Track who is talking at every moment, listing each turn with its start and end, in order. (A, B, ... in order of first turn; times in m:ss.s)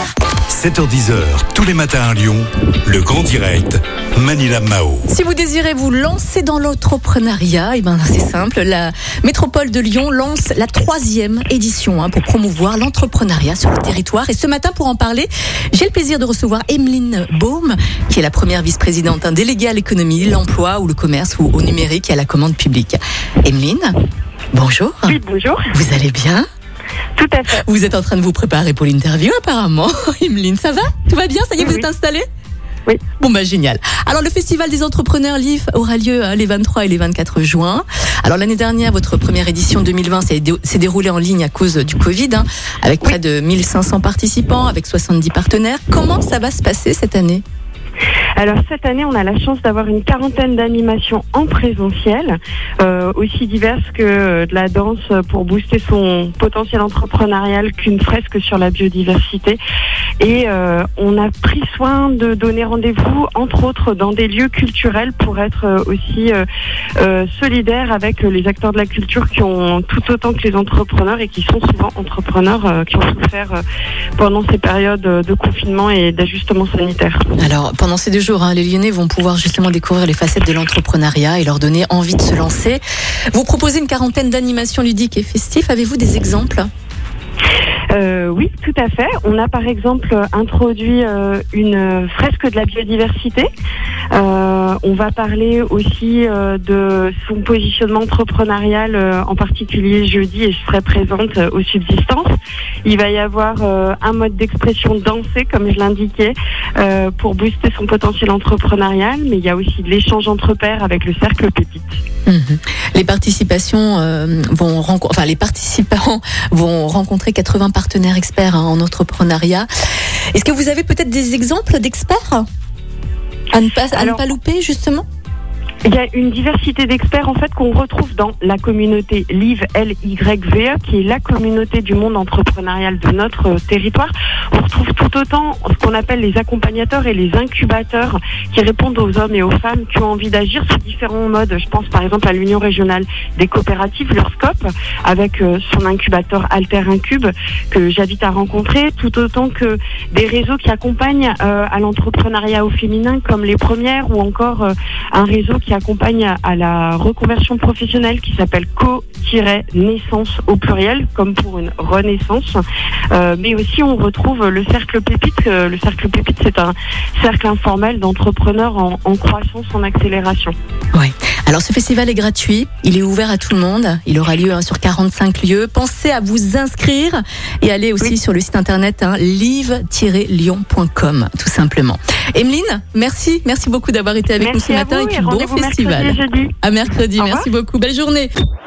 0:00.5-0:05.1 A
0:05.1-0:24.0 B
0:24.5-0:25.2 B
0:25.1-0:25.7 C
0:25.7-0:26.5 B
0:27.2-0:27.6 C
0:27.5-0:32.3 B
0:31.6-0:31.9 C
0:33.2-0:47.4 B
0:48.4-0:59.6 C
1:00.2-1:06.5 C
1:07.0-1:13.6 C
1:14.2-1:17.2 C
1:17.4-1:22.8 B
1:23.3-1:26.7 B
1:27.9-1:33.5 C
1:34.1-1:42.3 C
1:42.8-1:51.9 C
1:52.3-1:59.7 B
2:00.3-2:02.5 B
2:03.5-2:05.0 B
2:03.9-2:04.3 C
2:05.8-2:50.6 C
2:50.9-3:08.3 B
3:04.4-3:06.6 C
3:07.2-3:07.5 C